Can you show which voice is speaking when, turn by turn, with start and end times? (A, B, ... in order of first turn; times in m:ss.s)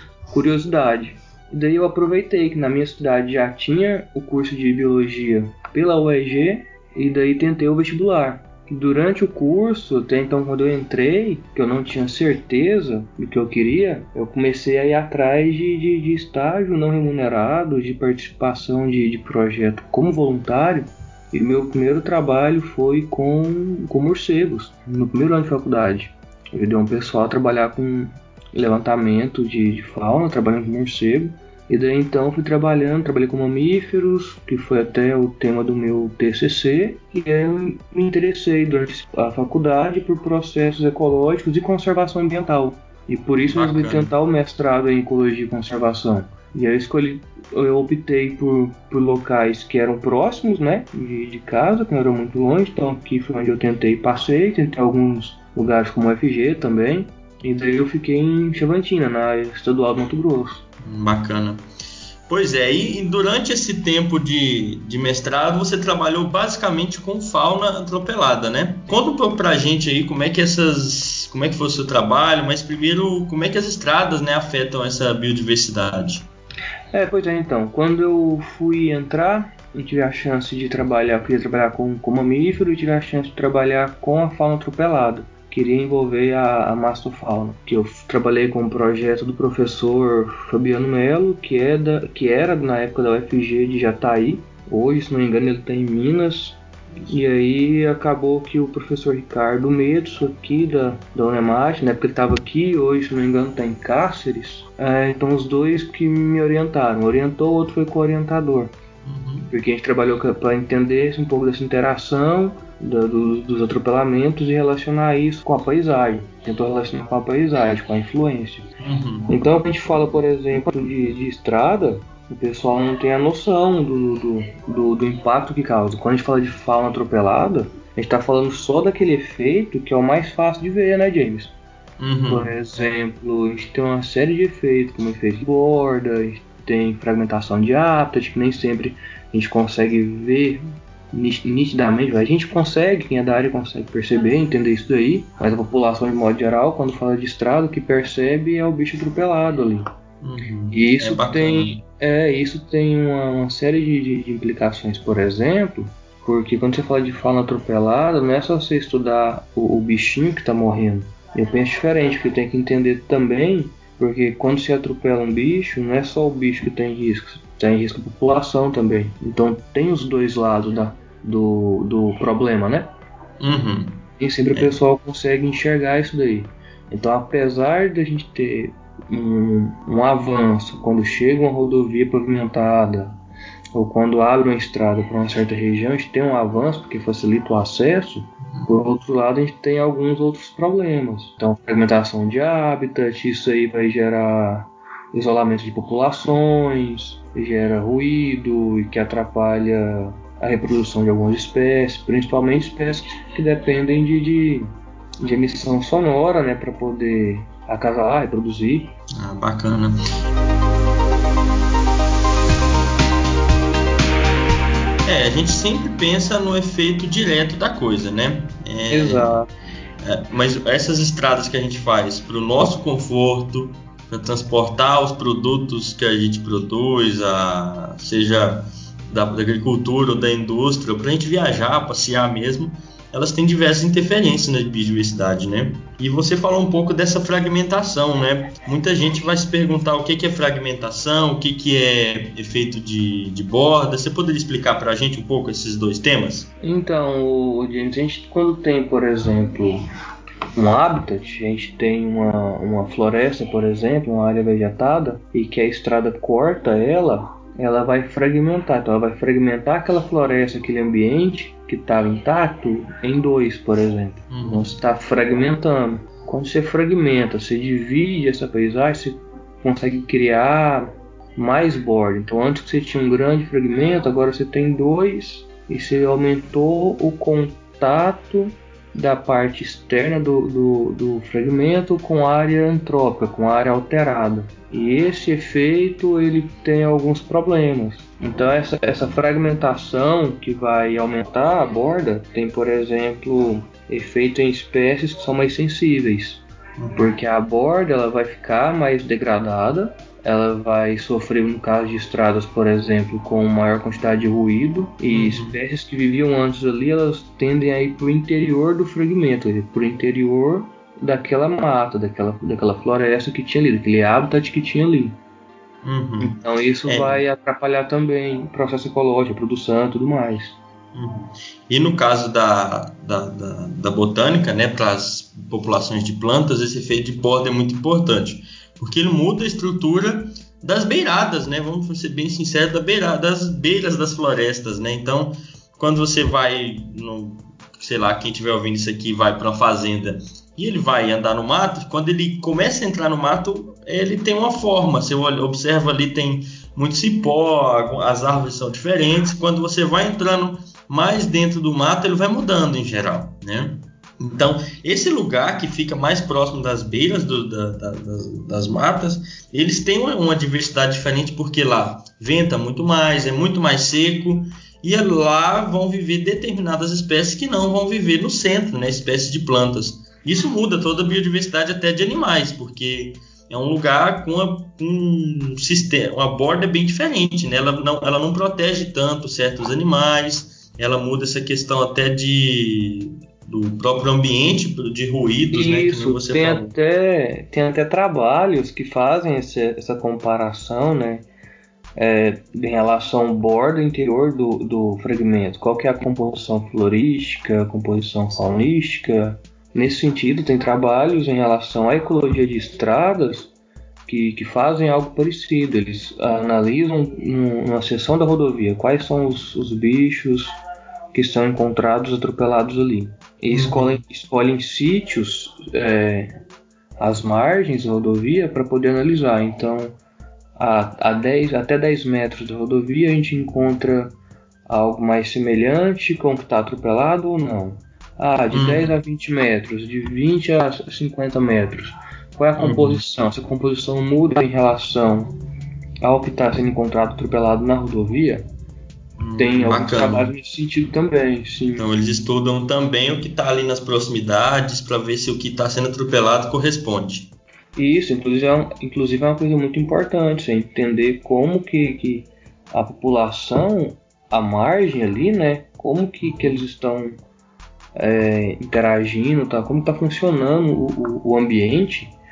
0:00.3-1:00.6 A
0:43.5-0:44.1 B
1:00.8-1:01.6 B
1:02.3-1:16.2 B
1:16.9-1:36.6 A
1:37.1-1:48.7 A
1:49.0-1:49.5 B
1:49.5-1:58.7 A
1:58.8-1:59.3 B
1:59.3-2:11.5 A
2:12.0-2:12.5 B
2:12.3-2:29.8 A
2:30.2-2:31.8 B
2:30.7-2:52.9 A
2:53.4-2:54.7 B
2:54.2-3:03.2 A
3:03.7-3:24.7 A
3:25.2-3:28.9 A
3:29.2-3:30.0 B
3:35.0-3:39.4 B
3:38.9-3:39.5 A
3:40.0-4:06.5 B
4:06.6-4:09.8 A
4:10.6-4:56.4 A
4:24.3-4:24.7 B
4:56.8-4:57.0 B
4:57.0-5:15.2 A
5:05.1-5:05.6 B
5:15.8-5:17.2 B
5:16.2-5:20.6 A
5:20.9-6:26.7 B
6:25.5-6:31.2 A
6:32.0-6:43.5 A
6:44.1-6:50.5 A
6:51.1-6:56.3 A
6:53.5-6:54.0 B
6:57.0-6:59.9 A
7:00.6-7:04.2 A
7:04.7-7:15.3 A
7:08.5-7:08.9 B
7:12.6-7:13.0 B
7:16.0-7:18.4 A
7:19.2-7:20.3 B
7:19.4-7:21.9 A
7:21.8-7:27.3 B
7:27.8-7:37.1 A
7:36.2-7:36.6 B
7:38.0-7:42.1 A